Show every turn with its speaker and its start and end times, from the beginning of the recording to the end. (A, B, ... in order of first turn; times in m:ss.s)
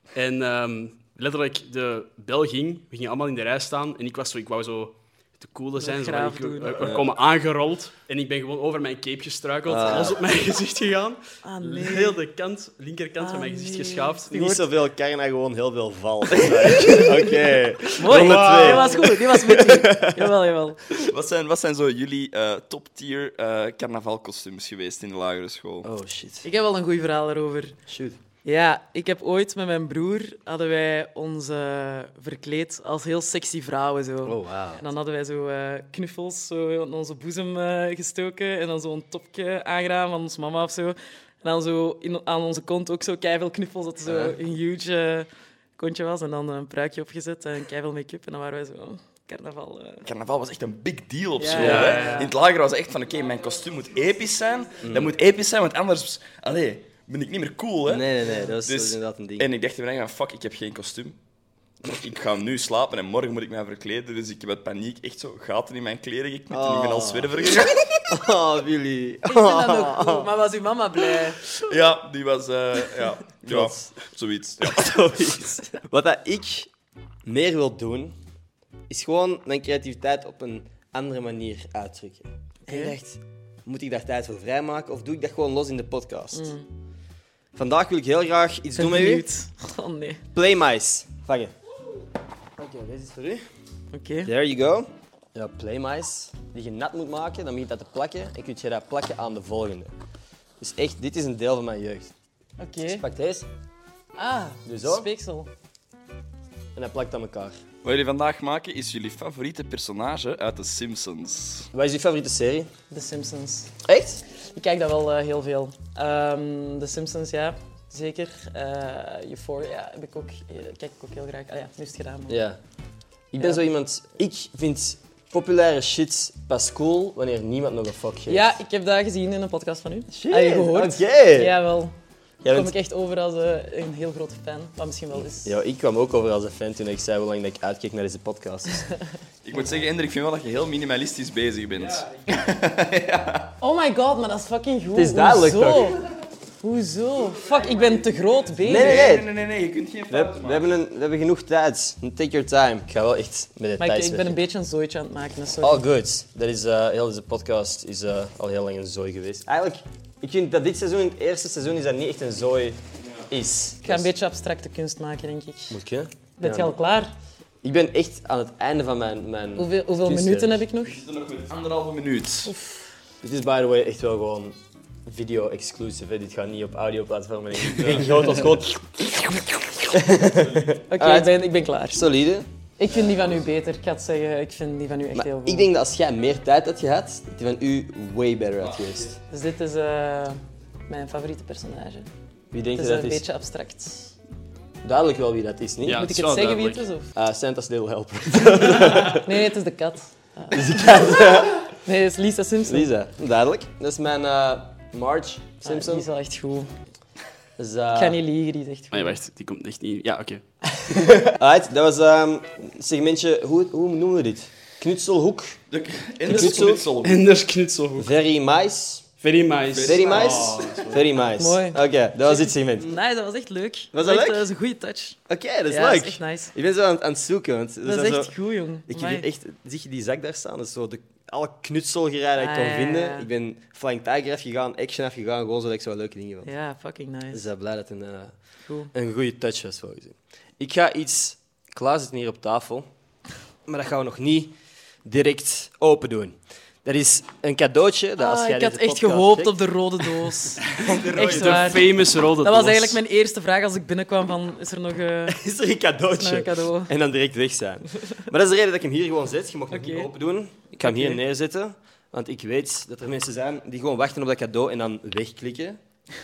0:00.1-0:14.6 A
0:05.8-0:07.0 B
0:06.8-0:07.0 C
0:09.7-0:10.2 C
0:11.4-0:12.2 B
0:13.2-0:14.6 B
0:14.3-0:19.5 C
0:16.8-0:17.1 B
0:18.0-0:21.0 B
0:18.0-0:19.1 A
0:21.0-0:25.9 D
0:25.8-0:26.5 C
0:26.4-0:27.8 B
0:27.9-0:28.2 C
0:28.4-0:50.0 B
0:34.2-0:34.8 C
0:44.0-0:44.4 C
0:50.0-1:01.2 D
0:51.4-0:52.3 B
0:51.5-0:52.3 A
0:54.8-0:55.1 C
0:57.9-0:59.5 C
1:01.8-1:08.0 D
1:06.5-1:10.3 C
1:09.3-1:11.4 B
1:11.6-1:15.0 D
1:13.5-1:13.9 C
1:14.6-1:16.7 C
1:17.2-1:18.1 C
1:18.9-1:26.5 C
1:22.7-1:22.9 B
1:26.3-1:26.6 B
1:27.5-1:29.2 C
1:28.8-1:30.2 B
1:30.3-1:31.5 C
1:32.6-1:33.4 C
1:33.9-1:34.3 B
1:34.2-1:39.9 C
1:40.6-1:42.1 C
1:42.6-1:43.0 B
1:42.9-1:43.5 C
1:44.2-1:45.5 B
1:44.6-1:45.1 C
1:46.7-1:47.6 C
1:47.8-1:51.7 D
1:51.7-1:52.7 C
1:52.9-1:53.7 B
1:53.8-1:54.2 C
1:54.3-2:02.4 B
2:02.3-2:02.6 C
2:03.3-2:08.5 C
2:08.3-2:11.9 B
2:10.1-2:11.5 C
2:12.4-2:12.7 C
2:12.5-2:15.5 B
2:15.3-2:18.9 C
2:19.4-2:23.5 D
2:23.6-2:26.0 B
2:24.9-2:26.0 C
2:26.6-2:29.1 B
2:28.6-2:29.3 C
2:28.6-2:30.7 D
2:30.1-2:34.4 C
2:33.8-2:35.8 B
2:35.6-2:44.1 C
2:43.0-2:43.3 D
2:43.8-2:45.8 B
2:45.7-2:46.7 C
2:46.4-2:47.1 B
2:47.6-2:50.6 C
2:49.6-2:51.0 B
2:50.8-2:52.5 D
2:52.4-2:52.9 B
2:53.2-2:59.1 C
2:57.7-2:58.3 D
2:59.9-3:01.3 C
3:00.3-3:00.8 D
3:00.9-3:02.0 B
3:01.9-3:02.5 C
3:02.8-3:05.7 B
3:05.1-3:09.2 C
3:08.6-3:09.1 D
3:09.3-3:12.1 B
3:12.5-3:13.2 C
3:12.8-3:14.1 B
3:14.8-3:16.0 C
3:15.8-3:16.8 A
3:15.9-3:17.1 B
3:17.1-3:19.3 C
3:18.8-3:22.9 B
3:20.5-3:21.7 C
3:22.6-3:26.0 C
3:25.6-3:26.7 B
3:27.6-3:28.2 C
3:27.9-3:29.2 B
3:28.9-3:30.4 A
3:30.9-3:35.6 C
3:35.7-3:37.2 D
3:36.3-3:36.9 C
3:36.3-3:38.1 A
3:38.0-3:39.1 C
3:39.2-3:41.0 A
3:39.7-3:40.9 D
3:39.8-3:42.9 C
3:41.4-3:46.5 B
3:43.9-3:44.4 C
3:45.3-3:48.3 C
3:47.8-3:49.2 B
3:48.9-3:56.5 C
3:52.4-3:53.3 B
3:56.4-3:57.4 B
3:57.3-3:58.4 C
3:58.6-3:58.9 B
3:58.9-4:02.9 C
4:03.7-4:10.3 C
4:08.2-4:15.4 B
4:10.8-4:11.6 D
4:10.9-4:11.6 C
4:11.1-4:13.0 A
4:15.3-4:25.8 C
4:16.1-4:16.9 B
4:19.7-4:20.1 B
4:20.7-4:21.2 B